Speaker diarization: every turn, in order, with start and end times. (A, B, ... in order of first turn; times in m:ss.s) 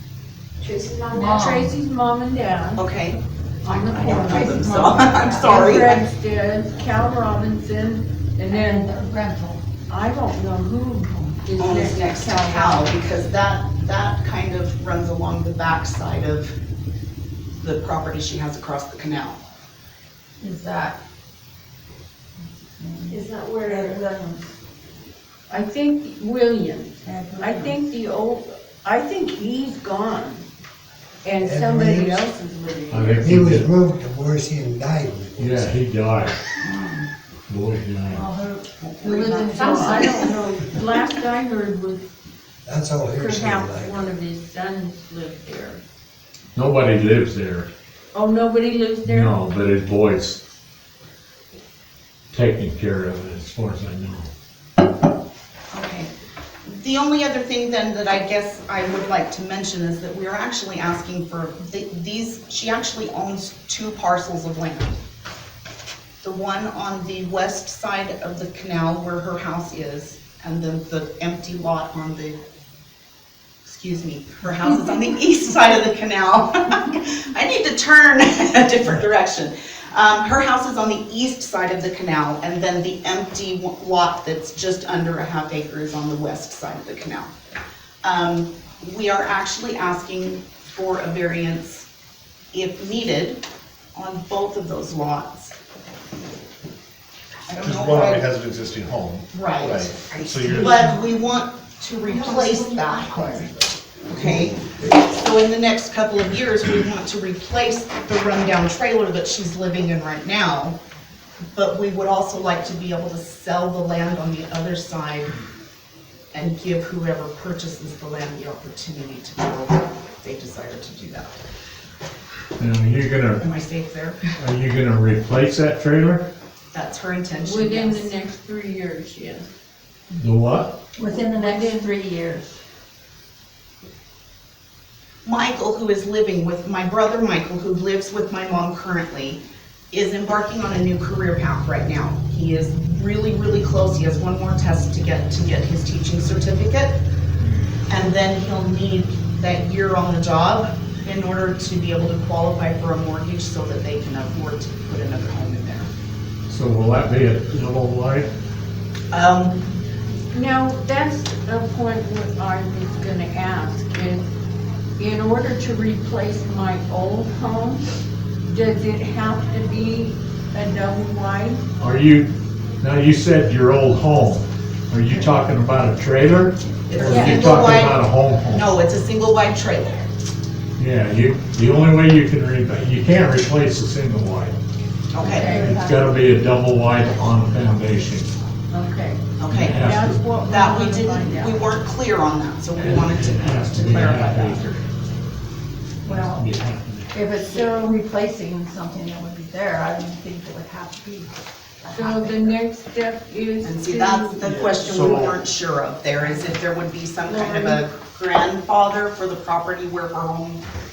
0:00.6-0:01.6 A
0:01.1-0:01.7 B
0:01.3-0:02.8 C
0:02.8-0:06.1 D
0:03.6-0:08.9 C
0:04.0-0:05.9 B
0:08.5-0:09.6 B
0:09.9-0:12.9 C
0:11.6-0:16.5 D
0:17.6-0:19.4 D
0:20.4-0:21.0 B
0:22.6-0:24.5 B
0:23.1-0:24.0 A
0:25.5-0:30.4 C
0:27.0-0:27.8 B
0:31.2-0:33.4 C
0:31.4-0:32.2 E
0:32.9-0:33.7 F
0:33.2-0:35.8 E
0:35.4-0:36.4 F
0:37.5-0:38.3 F
0:38.1-0:40.4 B
0:38.8-0:39.8 D
0:39.0-0:42.1 C
0:39.6-0:40.6 A
0:42.6-0:44.1 E
0:43.1-0:45.8 C
0:46.6-0:47.7 F
0:48.1-0:49.3 C
0:49.0-0:50.4 F
0:52.3-0:54.3 F
0:55.7-0:56.1 D
0:56.7-1:05.0 D
1:06.2-1:12.4 D
1:13.6-1:27.3 D
1:28.0-1:31.9 D
1:32.5-1:33.4 D
1:34.0-1:35.6 D
1:37.5-1:38.3 D
1:37.6-1:41.0 G
1:39.3-1:43.5 D
1:42.1-1:43.6 B
1:44.1-1:50.8 D
1:44.2-1:44.4 G
1:51.6-1:55.3 D
1:56.3-2:01.4 D
2:02.6-2:03.5 F
2:03.4-2:04.3 D
2:04.4-2:06.3 F
2:06.7-2:08.1 D
2:07.4-2:09.5 C
2:10.1-2:10.8 F
2:11.0-2:12.5 B
2:11.1-2:11.9 C
2:15.2-2:27.0 D
2:27.9-2:35.9 D
2:36.5-2:38.3 F
2:39.1-2:39.6 D
2:40.3-2:44.3 C
2:45.0-2:47.8 C
2:48.5-2:51.6 C
2:51.8-2:52.3 F
2:52.8-2:58.7 F
2:56.9-3:00.1 D
2:57.0-2:57.5 C
3:00.8-3:04.6 F
3:05.1-3:05.8 D
3:05.2-3:06.2 C
3:05.5-3:08.3 F
3:08.7-3:11.7 C
3:09.4-3:09.9 D
3:09.5-3:10.3 F
3:10.4-3:14.8 D
3:12.7-3:14.8 F
3:16.0-3:16.5 B
3:16.0-3:17.3 F
3:17.1-3:22.6 B
3:17.5-3:17.8 C
3:21.9-3:25.2 C
3:23.6-3:30.6 D
3:24.4-3:25.4 G
3:27.2-3:27.8 C